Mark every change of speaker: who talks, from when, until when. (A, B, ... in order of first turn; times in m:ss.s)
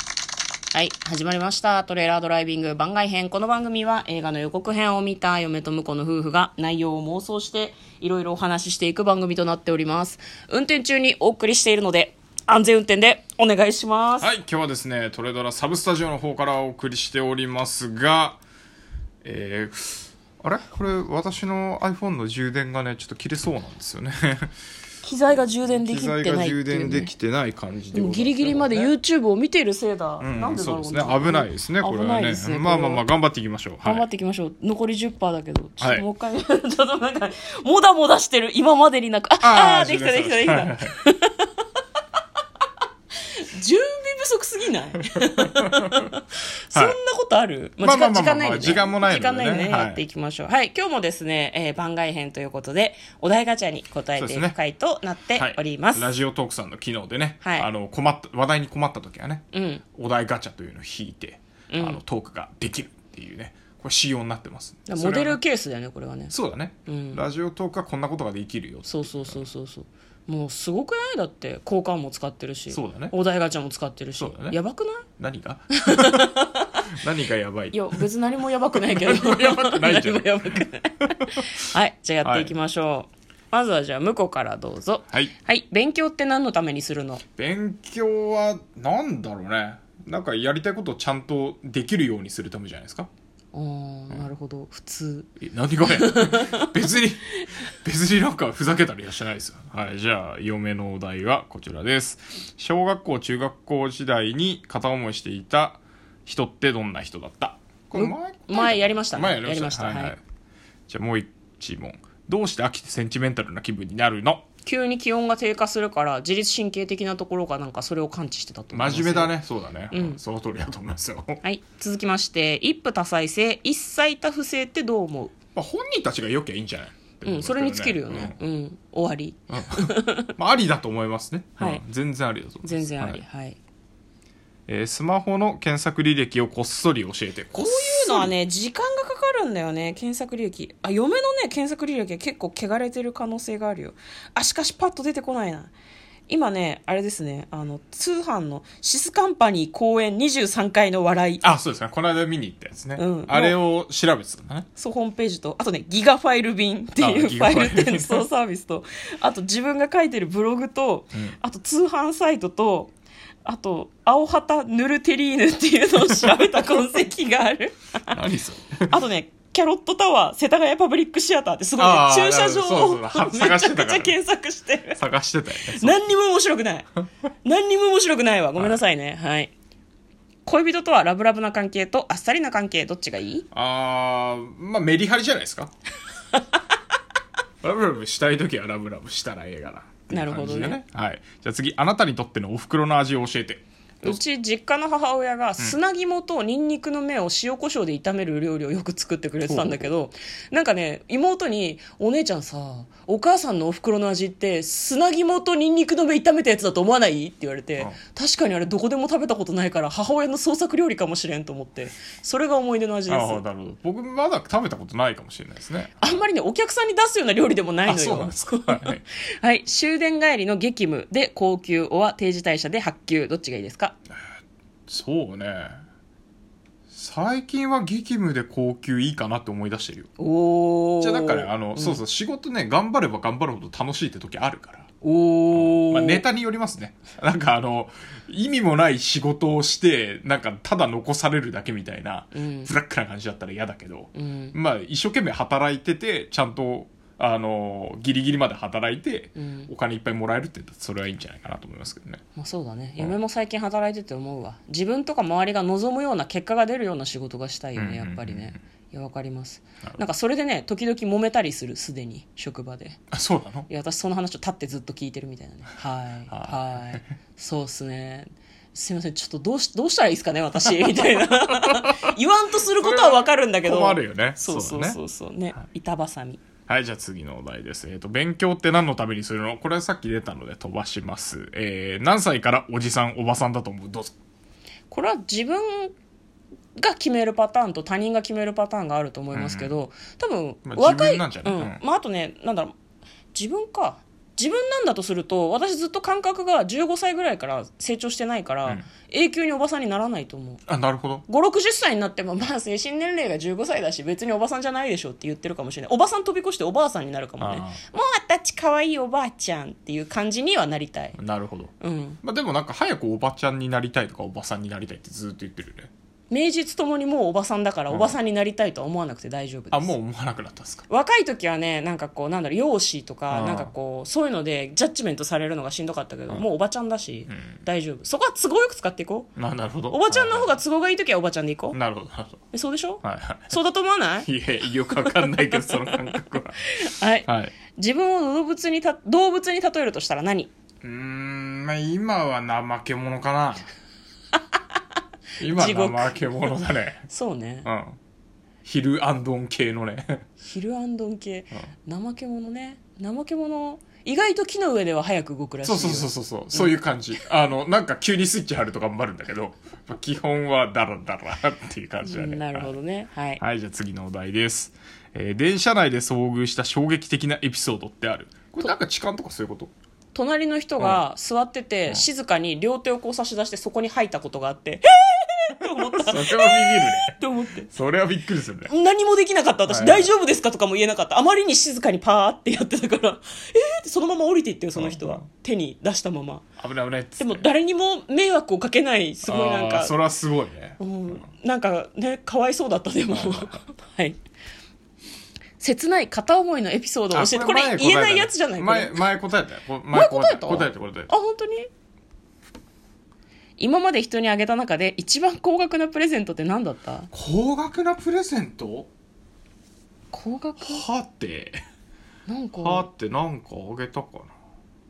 0:00.7-0:14.3 A
0:14.2-0:18.4 B
0:19.2-0:24.5 B
0:25.0-0:27.1 A
0:25.7-0:28.9 B
0:27.9-0:33.0 A
0:30.2-0:34.0 B
0:33.8-0:41.5 A
0:35.8-0:36.0 B
0:39.4-0:40.9 B
0:43.3-0:56.1 A
0:45.1-0:46.0 B
0:47.8-0:50.0 B
0:54.2-0:54.6 B
0:55.4-1:05.4 B
0:57.4-0:57.7 A
0:59.5-0:59.8 A
1:01.7-1:02.0 A
1:04.9-1:06.3 A
1:06.3-1:09.5 B
1:06.8-1:07.2 A
1:08.8-1:15.0 A
1:12.7-1:13.1 B
1:14.2-1:14.6 B
1:15.2-1:16.3 B
1:15.8-1:16.9 A
1:16.9-1:18.0 B
1:17.7-1:27.2 A
1:18.8-1:21.2 B
1:22.2-1:22.5 B
1:27.4-1:33.1 B
1:33.5-1:35.3 A
1:35.4-1:50.2 B
1:35.9-1:36.7 A
1:47.9-1:50.2 A
1:50.9-1:54.4 B
1:54.6-1:59.3 A
1:58.7-2:01.4 B
1:59.9-2:00.2 A
2:01.4-2:05.3 A
2:05.5-2:08.4 B
2:07.2-2:10.3 A
2:09.5-2:13.2 B
2:11.6-2:11.8 A
2:12.6-2:13.6 A
2:14.7-2:18.3 B
2:17.5-2:25.7 A
2:26.3-2:31.4 A
2:31.4-2:34.7 B
2:33.0-2:33.6 A
2:34.8-2:42.9 A
2:37.0-2:38.2 B
2:43.4-2:48.2 A
2:48.1-2:49.0 B
2:48.9-2:55.0 A
2:51.8-2:54.2 B
2:54.9-2:56.0 B
2:55.8-2:56.9 A
2:57.4-2:59.5 A
2:58.6-2:58.8 B
3:00.4-3:03.5 A
3:03.5-3:05.7 B
3:07.6-3:14.2 B
3:10.1-3:10.8 A
3:14.0-3:33.4 A
3:19.4-3:19.9 B
3:33.1-3:36.2 B
3:36.0-3:44.0 A
3:37.8-3:39.0 B
3:44.1-3:45.8 B
3:46.9-3:50.1 B
3:50.2-3:52.0 A
3:51.0-3:54.9 B
3:55.0-3:56.2 A
3:55.5-4:12.2 B
4:02.3-4:02.7 A
4:04.1-4:04.5 A
4:09.4-4:09.7 A
4:12.4-4:23.0 A
4:17.7-4:18.6 B
4:23.1-4:23.7 B
4:23.7-4:36.4 A
4:26.3-4:27.1 B
4:30.7-4:32.1 B
4:32.8-4:35.0 B
4:36.7-4:44.1 B
4:44.9-4:45.9 A
4:46.8-4:52.7 A
4:49.3-4:49.7 B
4:50.6-4:51.8 B
4:53.3-5:00.6 A
5:00.7-5:01.2 B
5:01.3-5:11.2 A
5:07.4-5:07.8 B
5:11.2-5:15.9 B
5:11.8-5:12.2 A
5:16.3-5:19.9 A
5:17.9-5:18.2 B
5:19.7-5:20.9 B
5:20.9-5:29.3 A
5:23.3-5:23.7 B
5:27.3-5:27.6 B
5:29.4-5:30.6 B
5:29.9-5:31.8 A
5:31.7-5:32.4 B
5:32.5-5:34.3 A
5:33.0-5:33.6 B
5:34.2-5:36.6 B
5:34.9-5:36.2 A
5:36.7-5:40.5 A
5:37.2-5:37.5 B
5:40.8-5:43.7 B
5:45.4-5:47.0 B
5:45.4-5:46.6 A
5:47.1-5:47.7 A
5:47.6-5:48.0 B
5:48.6-5:50.2 B
5:50.4-5:56.8 A
5:55.6-6:02.8 B
6:02.0-6:03.4 A
6:03.4-6:09.7 B
6:10.1-6:17.7 A
6:10.8-6:11.0 B
6:15.9-6:17.1 B
6:17.7-6:18.7 B
6:18.7-6:26.4 A
6:19.7-6:20.1 B
6:24.7-6:25.2 B
6:26.6-6:27.5 B
6:27.2-6:29.9 A
6:29.2-6:31.2 B
6:30.8-6:34.2 A
6:33.1-6:33.6 B
6:35.6-6:39.0 A
6:37.1-6:41.1 B
6:39.9-6:41.7 A
6:43.6-6:47.1 A
6:47.1-6:48.9 B
6:50.1-6:50.8 A
6:50.6-6:51.6 B
6:52.3-6:52.9 A
6:52.6-6:54.3 B